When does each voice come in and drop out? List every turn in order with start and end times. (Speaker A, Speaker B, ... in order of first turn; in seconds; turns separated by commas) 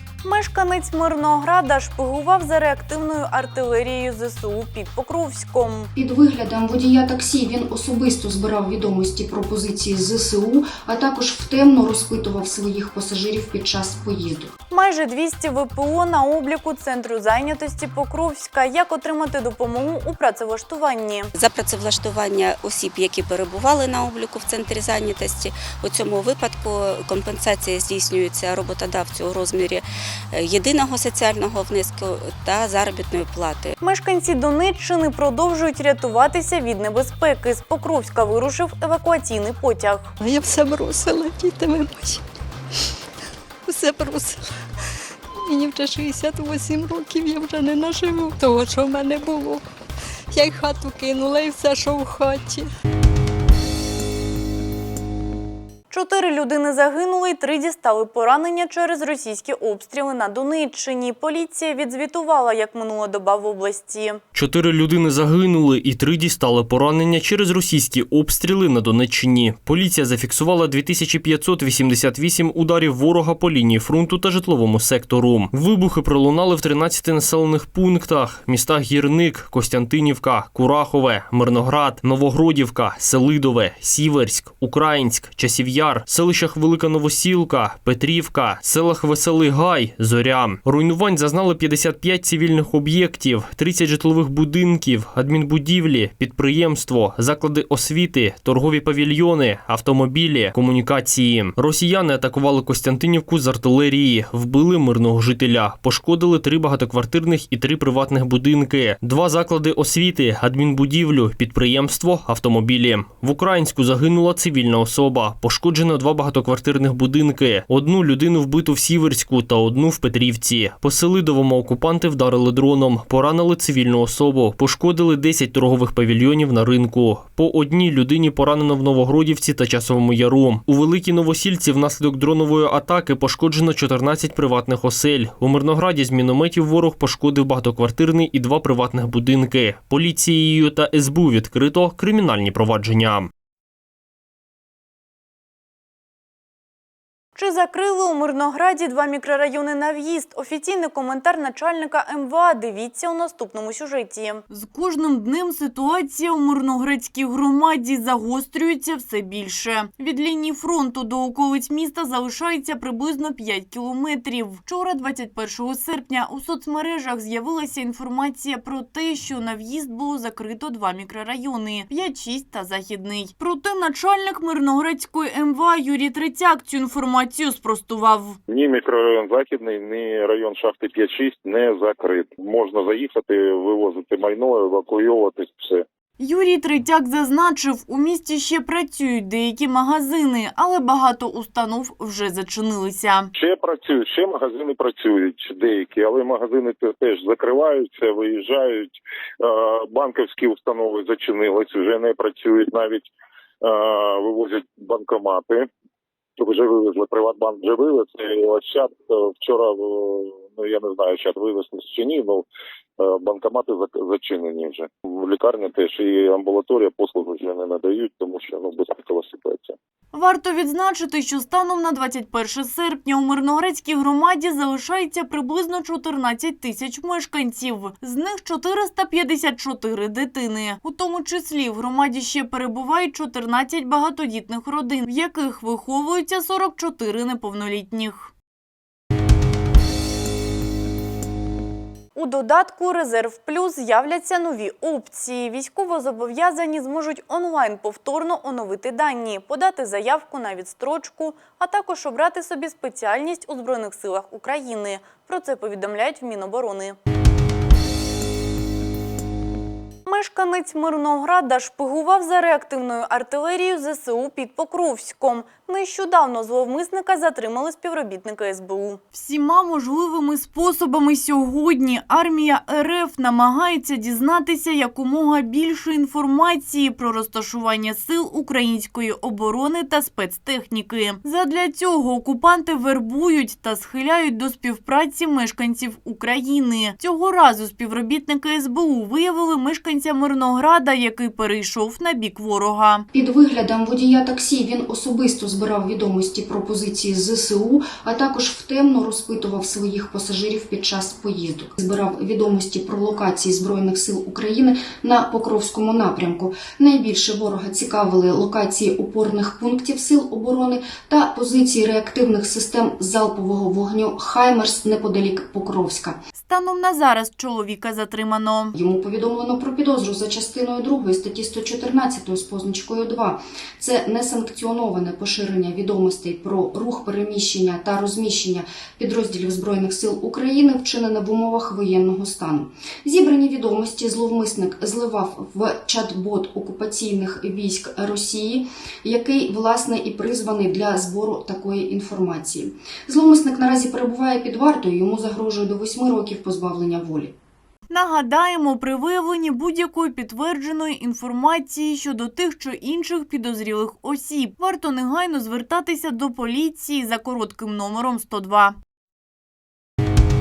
Speaker A: 0.2-5.9, Speaker B: 6.0-14.5, Speaker A: 14.7-21.3, Speaker C: 21.3-33.7, Speaker A: 33.8-40.1, Speaker D: 40.2-42.2, Speaker D: 43.7-44.4, Speaker D: 45.4-49.6, Speaker D: 50.3-52.7, Speaker A: 55.9-64.2, Speaker E: 64.3-143.3, Speaker A: 147.3-178.4, Speaker F: 178.5-185.8, Speaker A: 186.2-193.3, Speaker F: 193.3-203.1, Speaker F: 203.6-205.7, Speaker F: 206.4-212.4, Speaker F: 213.0-219.7, Speaker A: 220.1-238.3, Speaker A: 242.1-256.9, Speaker A: 260.1-293.1, Speaker B: 293.1-316.2, Speaker A: 316.4-318.7, Speaker B: 318.8-347.3, Speaker A: 347.9-358.8